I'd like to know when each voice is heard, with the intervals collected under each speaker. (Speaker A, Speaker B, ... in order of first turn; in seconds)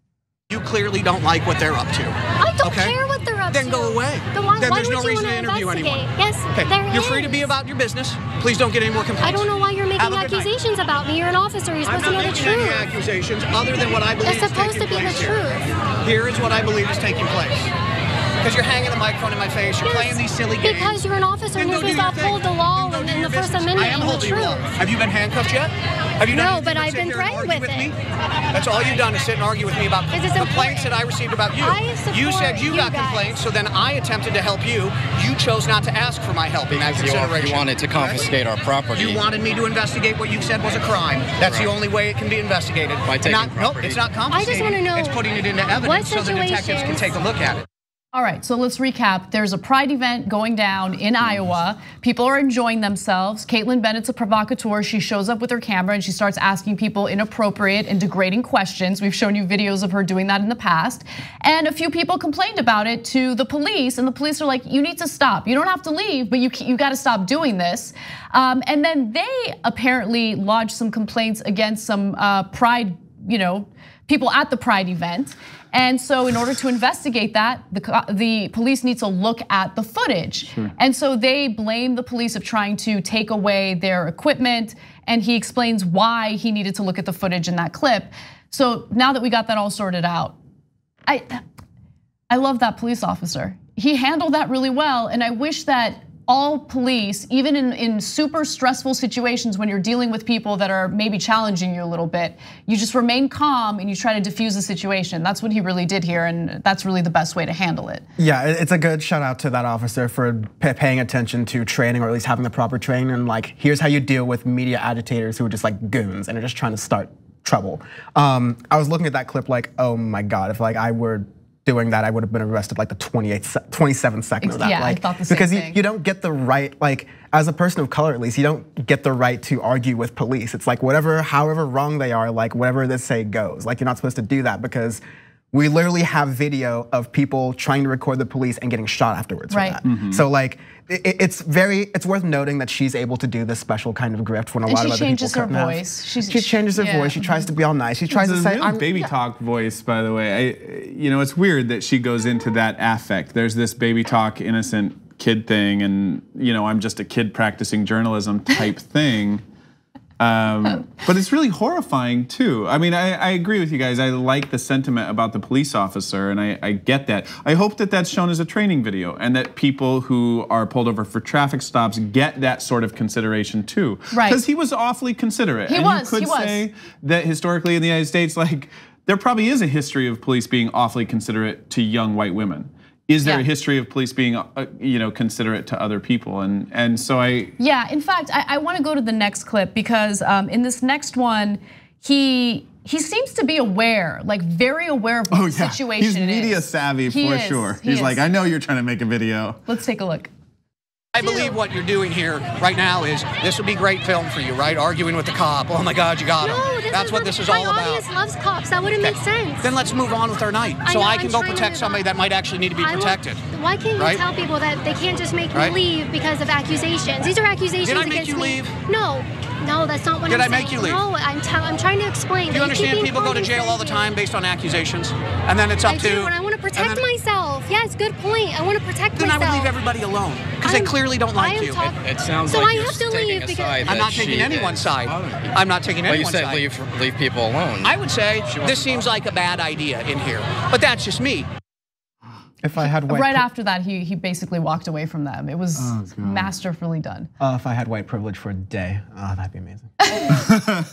Speaker A: 0.5-3.0, 3.5-6.0, 6.5-10.5, 11.8-15.5, 16.0-17.7, 18.4-21.0, 21.5-27.9, 28.5-38.4, 38.9-47.6, 201.1-208.0, 209.0-213.4, 217.8-218.7, 220.3-221.0, 222.5-227.0, 229.2-231.8, 233.8-236.7, 237.8-241.5
Speaker B: 2.4-7.5, 9.2-12.9, 13.7-15.6, 19.8-24.6, 26.3-27.9, 30.1-31.0, 31.6-33.4, 44.3-47.1, 201.2-201.6, 206.4-209.7, 210.8-212.1, 212.8-224.2, 225.8-229.7, 230.6-233.9
Speaker C: 36.7-39.2, 41.4-41.7, 43.0-44.0, 231.8-235.5, 236.0-237.9, 238.6-239.1
Speaker D: 48.1-90.3, 91.1-91.4, 92.3-108.0, 124.4-125.8, 139.5-139.8, 144.7-147.4, 174.1-174.4, 175.7-176.6, 187.6-198.2, 199.7-200.3, 243.1-247.3, 250.0-250.4
Speaker E: 108.2-135.0, 135.5-148.9, 242.6-243.4, 247.4-249.9
Speaker F: 148.1-159.4, 160.2-187.5, 195.3-199.6, 250.5-250.7